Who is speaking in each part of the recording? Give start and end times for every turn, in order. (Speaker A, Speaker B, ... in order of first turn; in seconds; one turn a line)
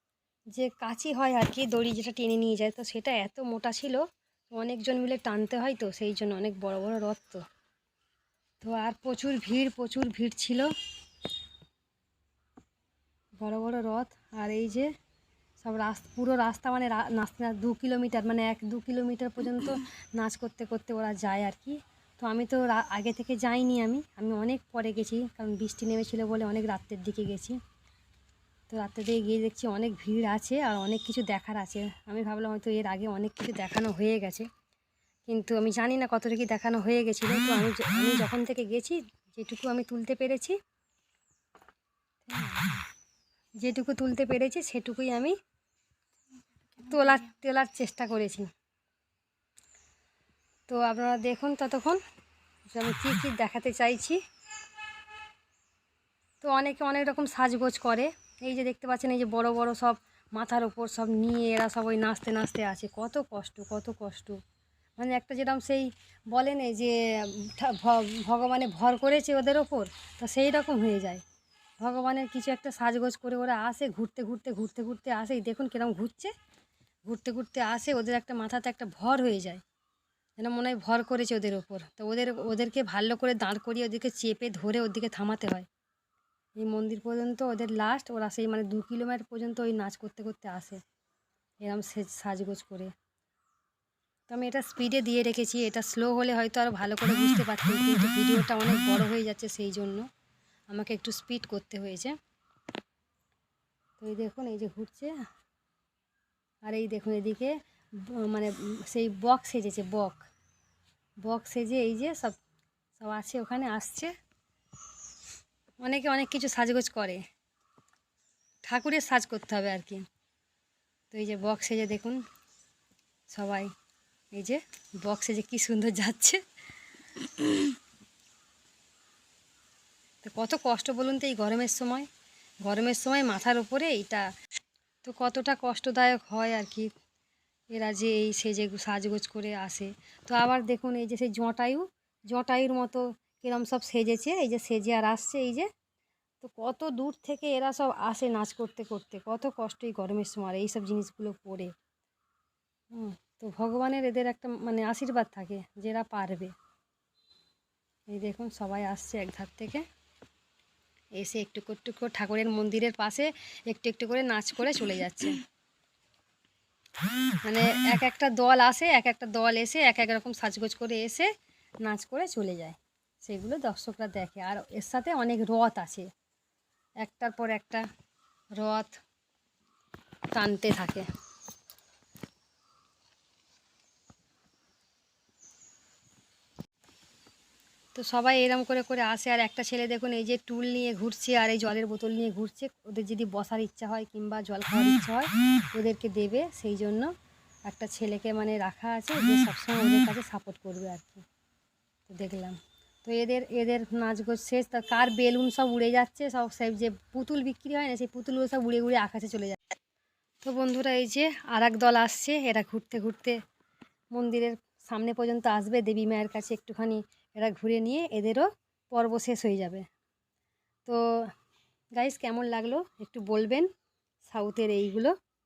Speaker A: 0.5-7.4
Speaker A: 8.6-10.7
Speaker A: 13.4-14.9
Speaker A: 15.6-27.6
Speaker A: 28.7-34.5
Speaker A: 35.3-40.6
Speaker A: 42.2-42.8
Speaker A: 43.6-45.4
Speaker A: 46.8-48.5
Speaker A: 50.7-52.0
Speaker A: 52.7-54.2
Speaker A: 56.4-64.4
Speaker A: 65.0-71.2
Speaker A: 71.8-76.3
Speaker A: 77.1-79.6
Speaker A: 80.4-85.7
Speaker A: 86.6-90.8
Speaker A: 91.6-92.9
Speaker A: 94.3-100.0
Speaker A: 100.7-102.1
Speaker A: 104.0-105.1
Speaker A: 106.7-107.5
Speaker A: 108.1-110.2
Speaker A: 111.2-112.4
Speaker A: 113.0-114.1
Speaker A: 115.8-117.2
Speaker A: 118.6-120.0
Speaker A: 121.1-122.2
Speaker A: 123.3-123.7
Speaker A: 124.3-126.4
Speaker A: 130.2-132.1
Speaker A: 132.6-134.2
Speaker A: 135.0-136.9
Speaker A: 137.7-145.7
Speaker A: 146.4-151.7
Speaker A: 152.9-156.5
Speaker A: 158.1-159.8
Speaker A: 161.2-165.4
Speaker A: 167.4-171.3
Speaker A: 171.8-176.1
Speaker A: 177.0-177.8
Speaker A: 178.6-178.9
Speaker A: 180.3-181.1
Speaker A: 187.9-197.1
Speaker A: 197.7-201.2
Speaker A: 202.1-209.6
Speaker A: 210.4-213.4
Speaker A: 214.1-219.8
Speaker A: 220.8-221.3
Speaker A: 221.9-223.7
Speaker A: 224.2-225.1